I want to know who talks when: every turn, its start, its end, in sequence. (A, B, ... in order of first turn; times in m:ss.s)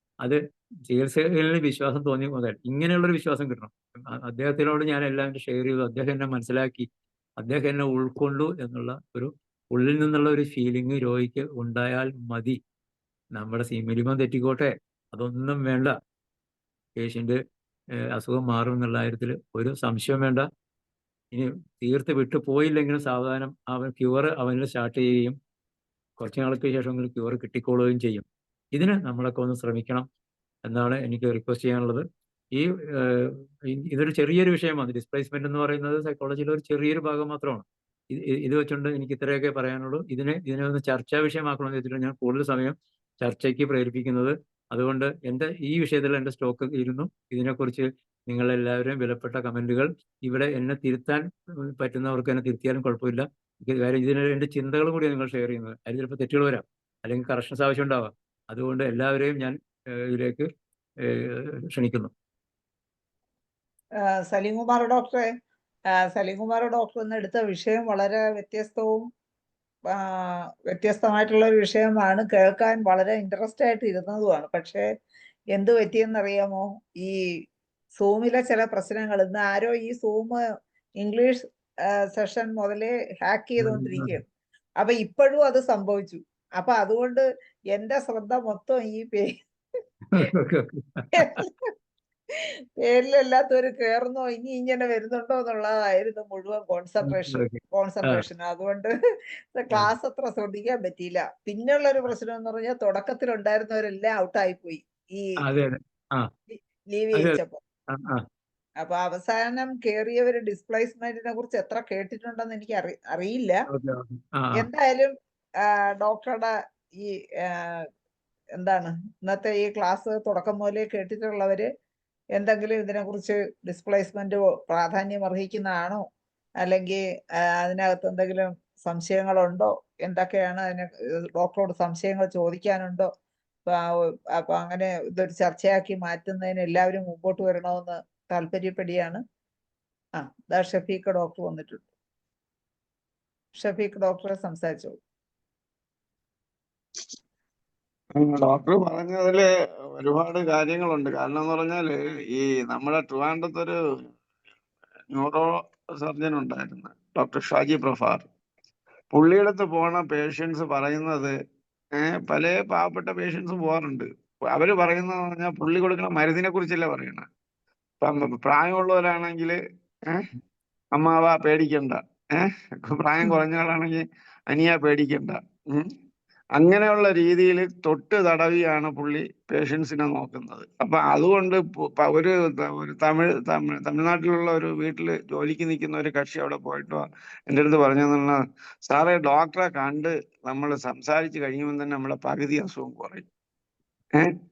0:00.2-0:06.9 A
0:07.4-0:12.6 A
0:13.4-0:15.9 A
0:17.0-0:17.4 A
0:18.1-0:20.4 A
0:21.3-0:25.4 A
0:26.2-0:30.1 A
0:30.6-0:51.2 A
0:51.8-1:00.5 A
1:01.0-1:02.1 A
1:04.3-1:05.3 B
1:06.1-1:09.1 B
1:09.9-1:14.8 B
1:15.5-1:17.1 B
1:18.0-1:20.4 B
1:21.0-1:24.2 B
1:23.6-1:24.2 A
1:24.8-1:29.4 B
1:30.1-1:31.4 A
1:31.2-1:31.7 B
1:32.8-1:38.9 B
1:37.0-1:38.2 A
1:39.5-1:45.3 B
1:45.4-1:46.3 A
1:46.5-1:47.6 B
1:47.1-1:48.2 A
1:48.8-1:53.6 B
1:53.7-1:54.6 A
1:54.6-1:57.8 B
1:58.6-2:01.7 B
2:02.4-2:06.0 B
2:06.6-2:13.1 B
2:13.6-2:19.2 B
2:20.2-2:21.8 B
2:23.5-2:25.0 B
2:28.2-2:29.4 C
2:30.0-2:33.8 C
2:35.1-2:35.5 C
2:36.0-2:38.2 C
2:39.1-2:41.3 C
2:42.0-2:47.2 C
2:48.0-2:50.3 C
2:50.9-2:55.9 C
2:56.6-3:13.2 C